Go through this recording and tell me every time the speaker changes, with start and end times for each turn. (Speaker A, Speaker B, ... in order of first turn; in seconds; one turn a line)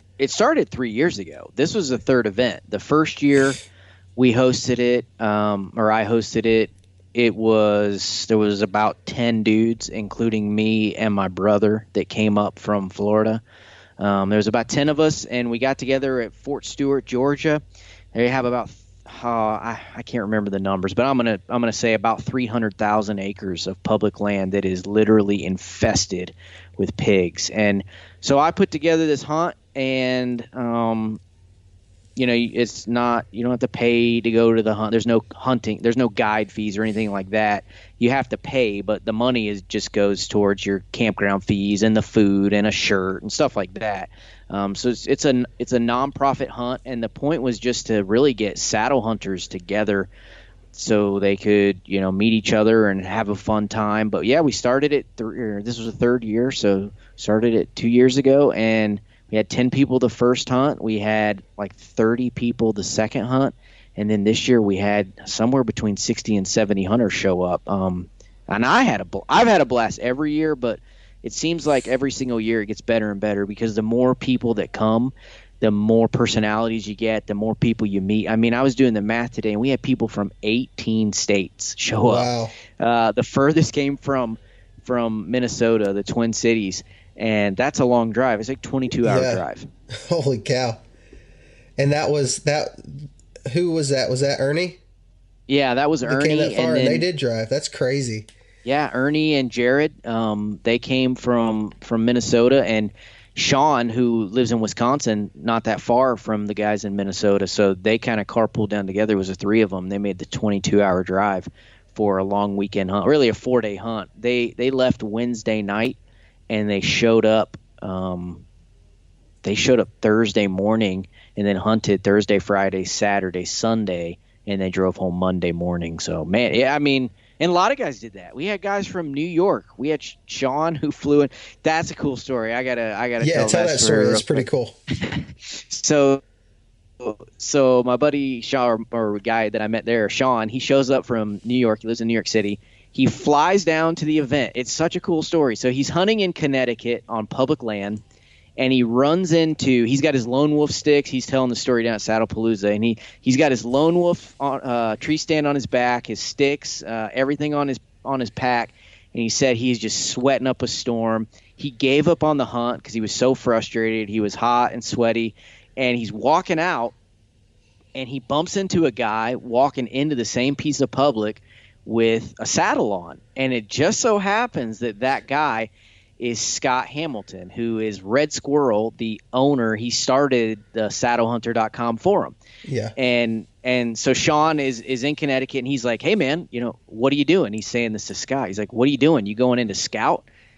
Speaker A: 0.2-3.6
Speaker A: 4.2-13.4
Speaker A: 14.0-17.6
Speaker A: 18.1-31.2
Speaker A: 32.2-50.1
Speaker A: 50.7-89.7
Speaker B: 82.0-82.6
Speaker B: 89.0-89.4
Speaker B: 90.1-90.8
Speaker B: 91.8-94.8
Speaker A: 95.5-97.0
Speaker B: 96.0-98.3
Speaker A: 98.7-116.0
Speaker A: 116.5-118.5
Speaker A: 119.4-136.2
Speaker B: 133.2-134.8
Speaker A: 137.0-148.0
Speaker A: 148.6-166.9
Speaker A: 167.9-182.4
Speaker B: 182.7-182.9
Speaker A: 183.0-190.3